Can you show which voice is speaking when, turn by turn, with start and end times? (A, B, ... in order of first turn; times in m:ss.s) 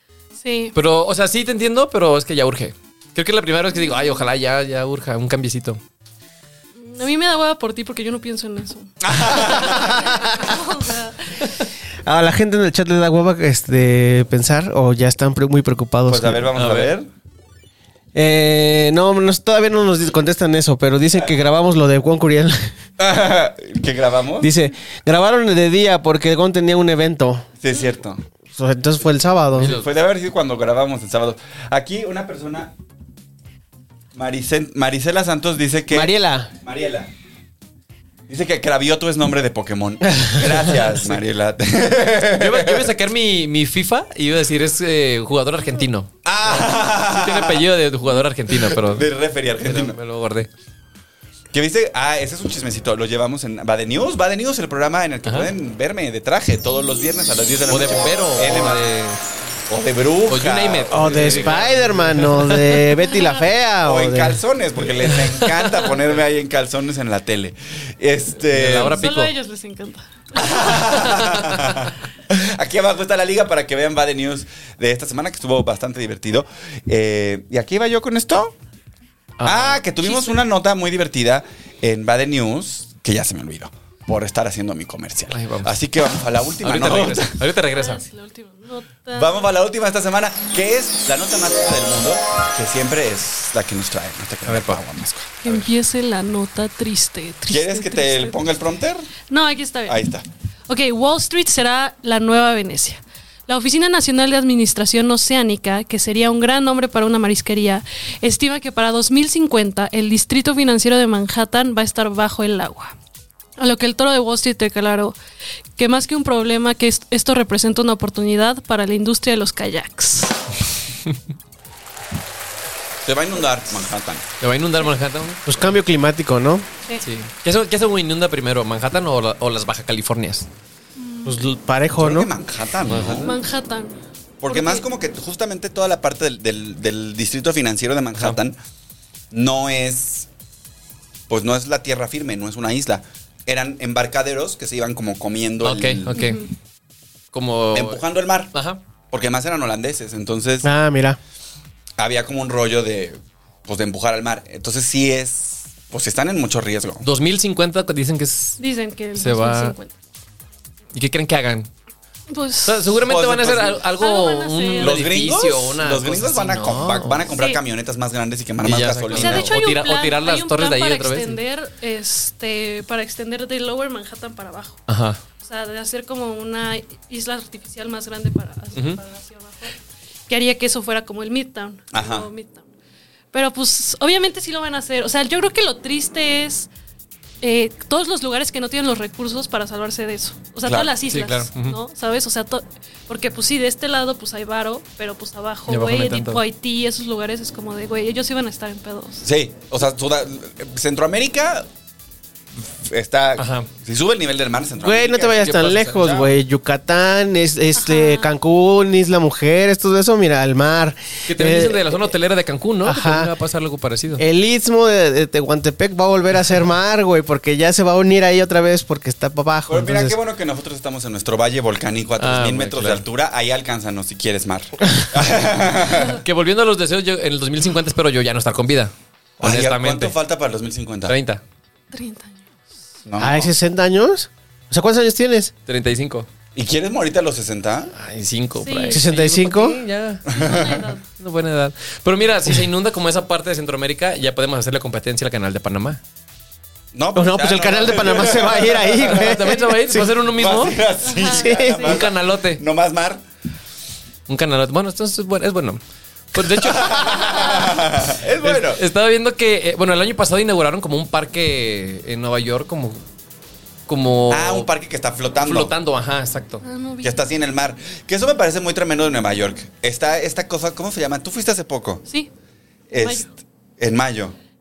0:00.4-0:00.7 A
0:00.7-0:05.8 B
0:03.8-0:04.1 A
0:06.8-0:11.5 A
0:09.0-0:10.2 C
0:12.0-0:16.4 D
0:16.1-0:17.1 C
0:16.5-0:16.9 B
0:18.1-0:22.6 D
0:23.0-0:24.5 C
0:24.4-0:27.5 D
0:27.6-0:28.2 C
0:28.5-0:29.7 D
0:29.6-0:32.7 C
0:29.6-0:29.9 B
0:34.1-0:37.1 C
0:35.9-0:36.5 D
0:38.3-0:42.9 C
0:42.3-0:49.1 B
0:46.2-0:47.6 C
0:48.5-0:50.0 C
0:49.6-0:50.5 B
0:51.5-0:58.8 C
0:55.2-0:55.5 B
0:57.7-0:59.2 B
0:59.7-1:01.6 C
1:00.3-1:02.8 B
1:00.9-1:04.4 D
1:03.8-1:09.0 C
1:05.0-1:06.0 B
1:08.5-1:09.3 B
1:08.9-1:11.2 A
1:10.3-1:18.5 C
1:19.4-1:19.8 B
1:19.4-1:27.4 C
1:20.0-1:20.4 A
1:25.3-1:25.7 B
1:26.6-1:28.0 B
1:27.7-1:29.5 A
1:29.1-1:35.7 C
1:34.4-1:34.8 B
1:35.4-1:38.4 A
1:37.4-1:39.1 C
1:39.3-1:40.0 A
1:39.8-1:40.3 C
1:40.7-1:52.9 A
1:53.6-1:55.2 A
1:55.8-2:00.4 A
2:03.0-2:04.3 C
2:04.4-2:05.5 B
2:05.4-2:06.7 D
2:07.0-2:10.5 B
2:11.0-2:11.4 A
2:11.2-2:12.3 D
2:12.0-2:13.3 C
2:12.8-2:13.4 B
2:13.2-2:14.8 A
2:14.4-2:18.6 C
2:19.3-2:20.3 C
2:21.3-2:26.2 C
2:25.6-2:26.5 B
2:26.1-2:26.5 A
2:27.3-2:28.0 B
2:27.7-2:28.5 C
2:28.5-2:28.8 B
2:29.1-2:30.7 C
2:30.6-2:31.2 D
2:32.0-2:37.1 C
2:37.0-2:38.6 B
2:38.6-2:39.9 A
2:39.2-2:39.7 B
2:40.9-2:41.7 B
2:42.3-2:42.9 A
2:42.6-2:47.3 B
2:43.0-2:43.8 C
2:44.0-2:44.9 A
2:44.8-2:49.6 C
2:47.4-2:47.6 A
2:48.6-2:51.4 B
2:49.1-2:54.8 A
2:54.9-2:55.2 B
2:55.4-2:59.7 A
2:58.7-2:59.0 B
3:00.3-3:02.6 A
3:01.9-3:02.3 C
3:03.3-3:06.7 A
3:07.4-3:19.2 A
3:10.6-3:10.9 C
3:11.1-3:11.8 B
3:15.7-3:16.4 B
3:19.2-3:21.7 C
3:22.6-3:26.3 C
3:23.4-3:23.7 B
3:24.8-3:32.1 D
3:27.7-3:28.3 A
3:31.3-3:34.2 B
3:32.8-3:33.3 D
3:34.2-3:40.2 D
3:39.7-3:46.2 C
3:42.2-3:43.0 B
3:46.0-3:50.1 B
3:49.4-3:51.2 C
3:51.1-3:51.4 B
3:51.9-3:52.4 A
3:53.0-3:53.5 C
3:53.2-3:55.5 D
3:55.7-3:56.3 B
3:56.5-3:57.9 C
3:57.9-4:00.2 B
3:58.6-3:59.0 A
3:58.9-3:59.8 D
4:00.3-4:00.8 C
4:00.3-4:01.0 A
4:01.2-4:06.0 B
4:06.9-4:09.5 C
4:07.1-4:10.1 D
4:09.1-4:10.8 B
4:10.1-4:13.2 C
4:11.0-4:12.0 A
4:11.3-4:11.7 D
4:11.8-4:12.6 B
4:14.3-4:15.8 B
4:16.3-4:17.6 B
4:16.4-4:18.8 C
4:18.4-4:23.0 B
4:23.9-4:24.7 B
4:24.3-4:25.7 C
4:25.4-4:26.6 B
4:26.6-4:27.2 A
4:27.0-4:32.0 C
4:32.9-4:34.4 C
4:32.9-4:33.3 A